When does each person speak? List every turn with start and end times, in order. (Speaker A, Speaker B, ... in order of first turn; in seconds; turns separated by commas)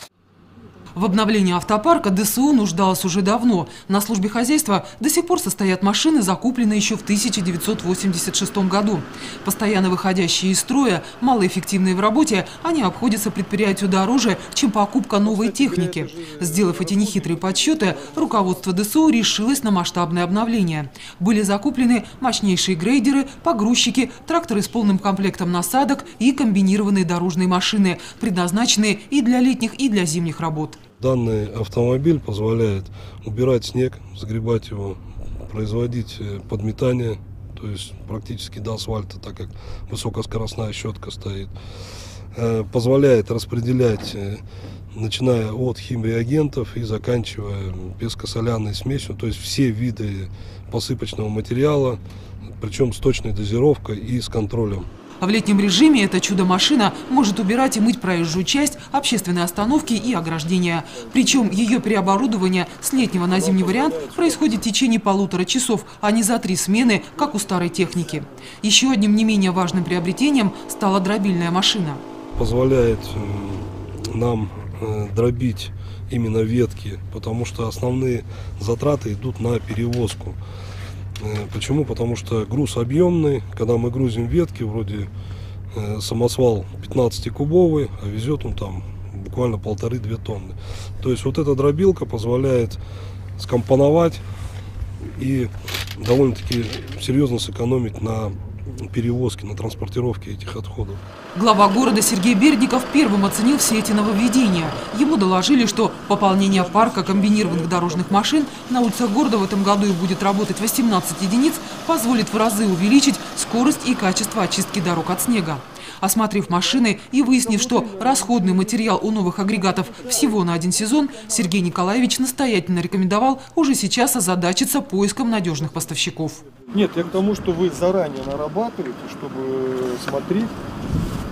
Speaker A: 0.9-30.8, Speaker B: 15.2-18.2, Speaker C: 31.0-41.5, Speaker C: 42.3-44.4, Speaker C: 44.9-52.0, Speaker C: 52.6-54.9, Speaker A: 55.2-72.0, Speaker C: 72.4-80.4, Speaker C: 81.2-85.1, Speaker C: 85.7-92.8, Speaker C: 93.4-94.2, Speaker C: 95.1-101.0, Speaker A: 101.3-126.5, Speaker B: 126.7-130.5